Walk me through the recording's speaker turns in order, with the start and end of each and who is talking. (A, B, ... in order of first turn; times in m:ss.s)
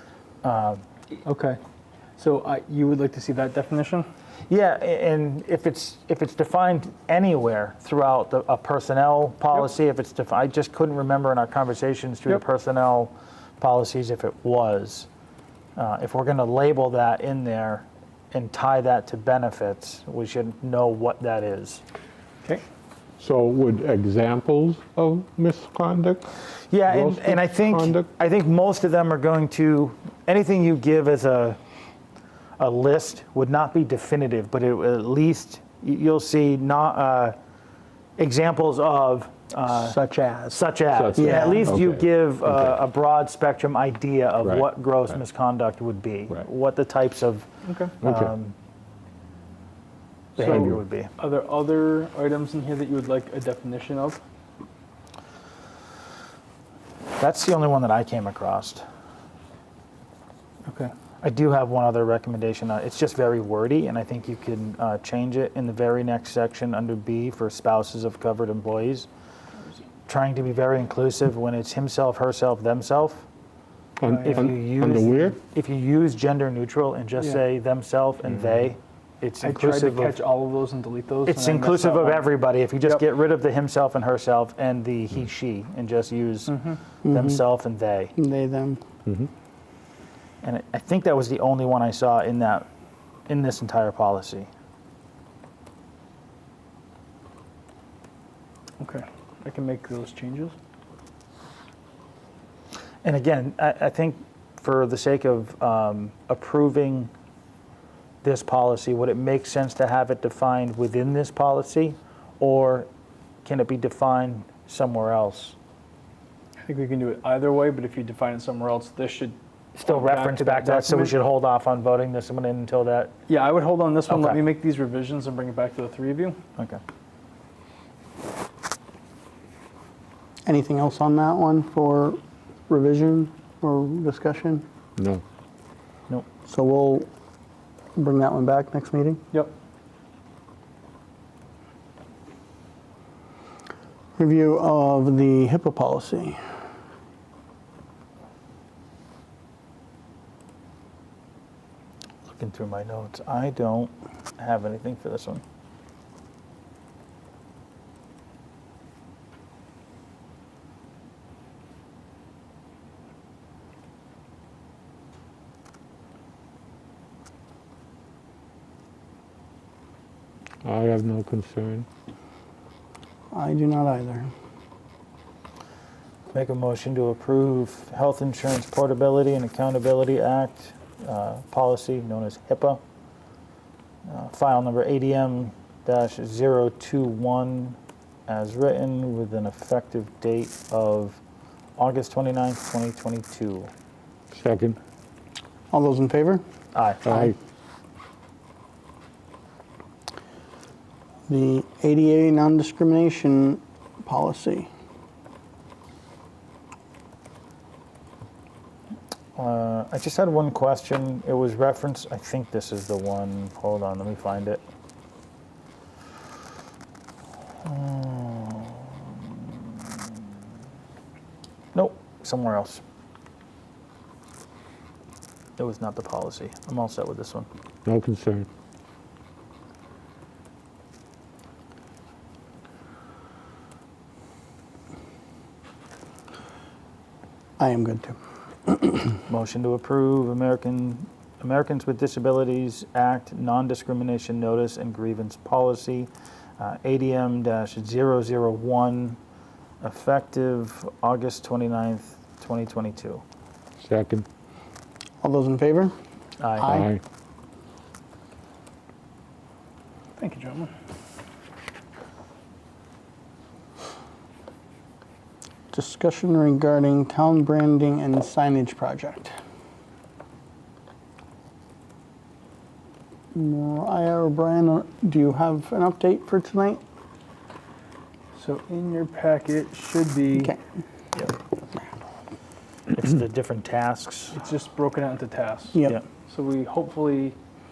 0:00.4-0:00.8 A
0:01.2-0:01.6 B
0:02.2-0:04.1 B
0:04.5-0:15.1 A
0:15.8-0:21.8 A
0:23.2-0:26.3 C
0:26.7-0:31.6 A
0:26.9-0:28.1 C
0:32.6-0:37.4 A
0:38.2-0:40.0 A
0:39.7-0:41.7 D
0:40.5-0:47.5 A
0:40.9-0:42.8 C
0:47.6-0:48.0 B
0:48.0-0:48.3 C
0:48.0-0:48.5 A
0:50.4-0:54.2 B
0:50.4-0:51.1 A
0:50.5-0:50.8 C
0:57.2-0:58.8 A
1:00.7-1:00.9 B
1:01.2-1:09.1 A
1:10.1-1:13.2 A
1:14.0-1:15.4 C
1:14.1-1:14.4 B
1:14.1-1:20.2 A
1:19.4-1:22.3 B
1:21.2-1:26.5 A
1:26.5-1:26.8 B
1:27.0-1:27.4 D
1:27.1-1:28.1 A
1:28.2-1:28.8 D
1:30.4-1:32.7 A
1:33.3-1:34.5 A
1:38.8-1:40.5 B
1:43.0-1:47.1 A
1:48.2-1:52.9 A
1:53.4-1:55.5 A
1:56.7-2:01.1 B
1:59.8-2:03.1 A
2:03.3-2:06.4 B
2:04.1-2:04.4 A
2:10.4-2:14.6 D
2:15.0-2:15.2 C
2:16.5-2:17.1 D
2:18.0-2:19.2 D
2:24.2-2:26.4 D
2:32.3-2:35.4 A
2:50.6-2:51.8 C
2:53.3-2:54.3 D
2:56.3-3:02.8 A
3:04.1-3:07.8 A
3:08.3-3:11.2 A
3:11.8-3:13.7 A
3:14.3-3:14.8 C
3:15.7-3:16.4 D
3:16.7-3:17.3 A
3:17.0-3:17.3 C
3:21.3-3:24.7 D
3:29.4-3:34.6 A
3:37.6-3:39.9 A
3:41.7-3:42.8 A
3:45.6-3:47.5 A
3:47.8-3:48.5 C
3:57.6-3:59.2 D
3:59.3-4:09.2 A
4:09.8-4:13.2 A
4:13.8-4:14.2 C
4:15.2-4:15.9 D
4:16.4-4:16.8 A
4:16.6-4:16.9 D
4:16.6-4:17.0 C
4:20.2-4:20.7 B
4:25.7-4:29.3 D
4:33.3-4:36.8 D
4:38.4-4:40.6 B
4:42.9-4:44.4 A
4:44.3-4:47.4 B